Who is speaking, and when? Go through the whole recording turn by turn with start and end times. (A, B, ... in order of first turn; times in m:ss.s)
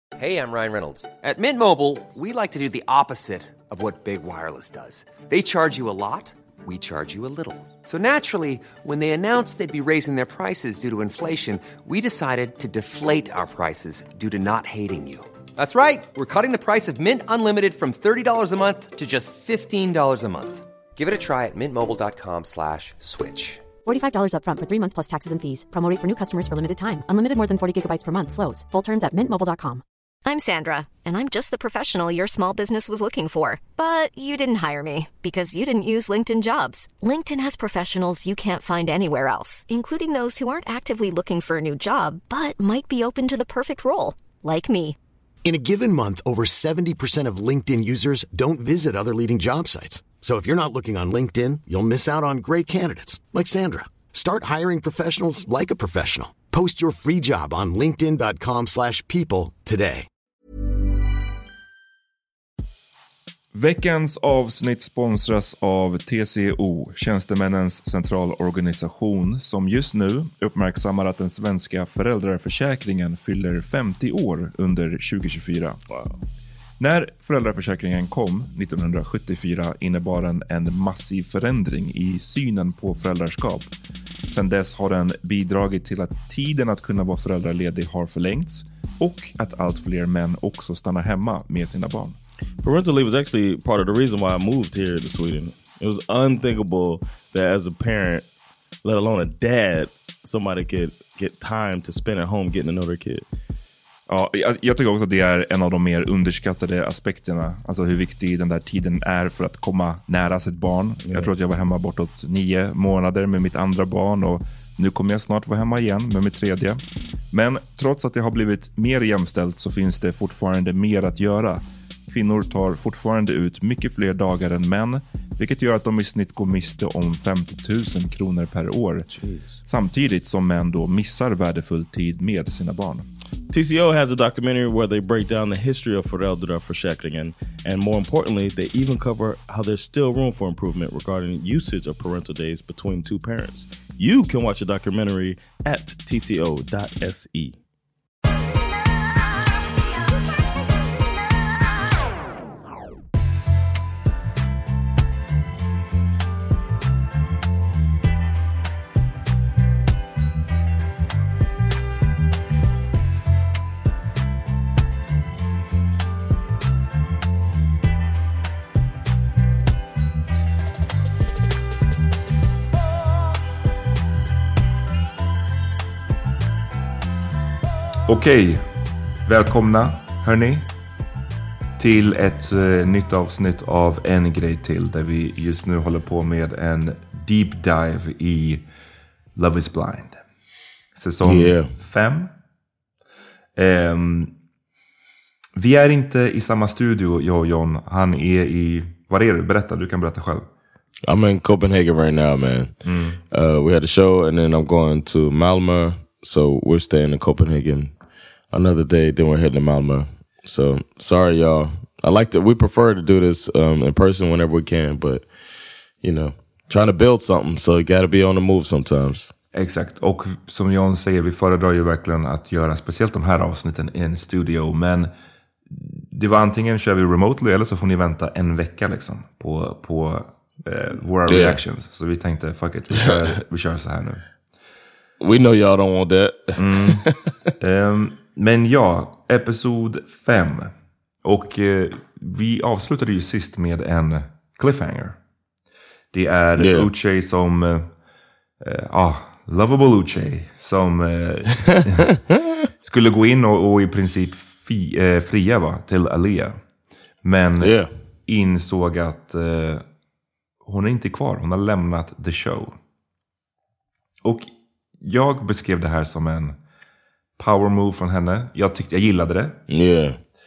0:00.2-0:23.7 A
0:23.8-0:29.8 B
0:30.2-0:45.0 C
0:45.4-1:00.1 D
1:03.6-1:15.8 E
1:15.9-1:16.2 F
1:16.8-1:23.7 E
1:24.3-1:32.2 E
1:32.6-1:38.3 F
1:38.8-1:43.3 F
1:44.1-2:09.1 E
1:51.0-1:51.3 F
2:09.2-2:09.5 F
2:09.7-2:13.1 E
2:13.5-2:27.6 F
2:58.1-2:58.7 E
2:59.3-3:00.7 E
3:01.8-3:08.6 E
3:09.4-3:10.2 E
3:11.0-3:12.3 E
3:11.2-3:11.7 F
3:13.6-3:14.4 E
3:15.6-3:20.5 E
3:21.1-3:22.8 F
3:22.8-3:23.2 E
3:23.3-3:27.9 F
3:28.5-3:35.2 F
3:36.0-3:39.3 F
3:39.5-3:45.1 E
3:45.7-3:54.2 E
3:51.3-3:51.6 F
3:55.2-3:57.2 F
3:56.6-3:57.1 E
3:57.6-4:00.7 E
4:01.2-4:05.2 E
4:06.1-4:07.9 E
4:06.6-4:06.9 F
4:08.6-4:12.2 E
4:12.8-4:16.6 E
4:17.2-4:19.8 E
4:17.6-4:17.9 F
4:20.6-4:22.8 E
4:24.2-4:26.6 E
4:27.4-4:29.6 E
4:29.7-4:30.2 F